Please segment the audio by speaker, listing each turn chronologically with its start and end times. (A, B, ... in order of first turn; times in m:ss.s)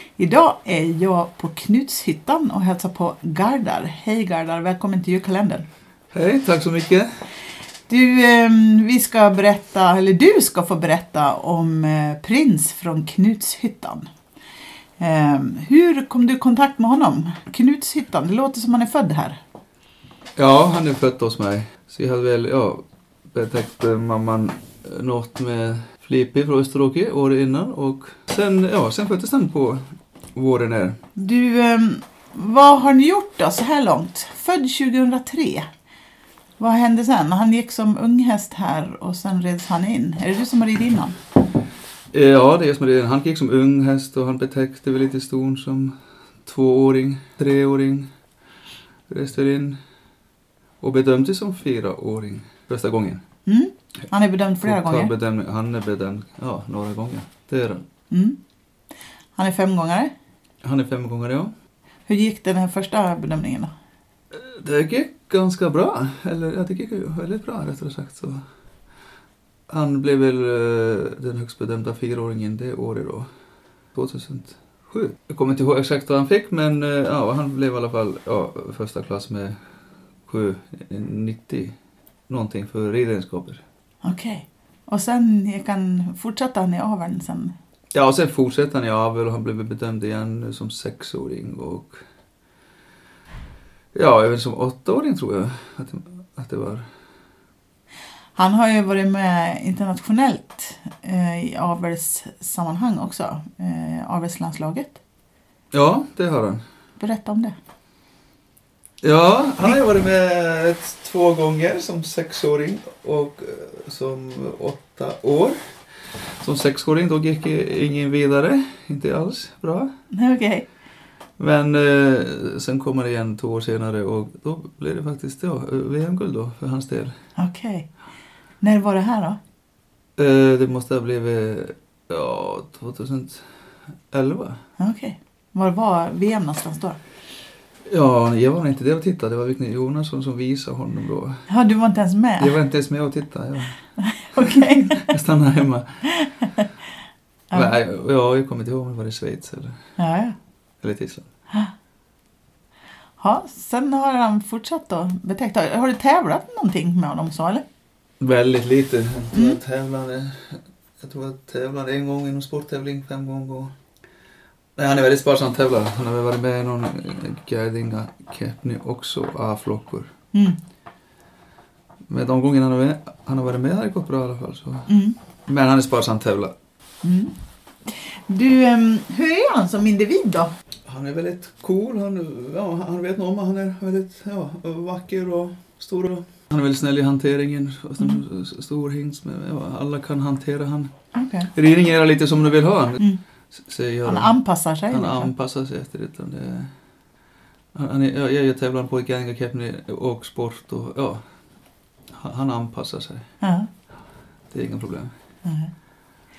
0:00.2-0:05.6 A
0:06.1-0:07.1 B
0:07.9-0:14.1 A
0:15.0-0:19.4 A
0:20.4-0:29.8 B
0:30.3-0:31.0 B
0:31.2-0:35.7 A
0:36.6-0:41.2 A
0:42.1-0:48.1 B
0:49.1-0:49.8 B
0:50.8-0:53.2 B
0:53.4-0:55.1 A
0:54.6-0:57.8 B
0:58.1-0:58.4 A
0:59.4-1:00.1 A
1:00.6-1:01.5 B
1:02.1-1:03.7 A
1:04.3-1:08.4 B
1:09.7-1:13.3 B
1:13.9-1:19.6 B
1:20.3-1:21.7 B
1:22.3-1:23.6 B
1:24.0-1:27.5 A
1:27.9-1:32.0 B
1:33.9-1:36.8 B
1:38.4-1:45.0 A
1:45.7-1:46.6 B
1:47.0-1:47.5 A
1:49.0-1:55.6 B
1:56.4-1:59.9 B
2:00.1-2:00.6 A
2:01.4-2:07.1 B
2:07.4-2:07.9 A
2:08.6-2:09.4 A
2:10.2-2:13.4 B
2:14.1-2:14.6 B
2:14.8-2:17.0 A
2:17.8-2:21.4 B
2:21.5-2:22.6 A
2:22.4-2:23.8 B
2:24.0-2:25.2 A
2:24.4-2:26.0 B
2:26.0-2:26.7 A
2:27.5-2:29.8 B
2:30.0-2:30.4 A
2:30.8-2:31.3 B
2:33.2-2:37.6 A
2:38.2-2:43.7 B
2:39.3-2:39.6 A
2:44.8-2:50.1 B
2:50.3-2:50.6 A
2:52.1-2:54.9 B
2:54.9-2:55.2 A
2:55.5-2:56.5 B
2:57.0-2:57.3 A
2:57.9-3:00.5 A
3:00.8-3:10.9 B
3:11.1-3:11.5 A
3:11.5-3:14.3 B
3:14.0-3:15.3 A
3:14.9-3:16.7 B
3:17.7-3:21.2 B
3:22.1-3:23.2 B
3:23.4-3:23.7 A
3:24.5-3:25.1 B
3:25.4-3:25.7 A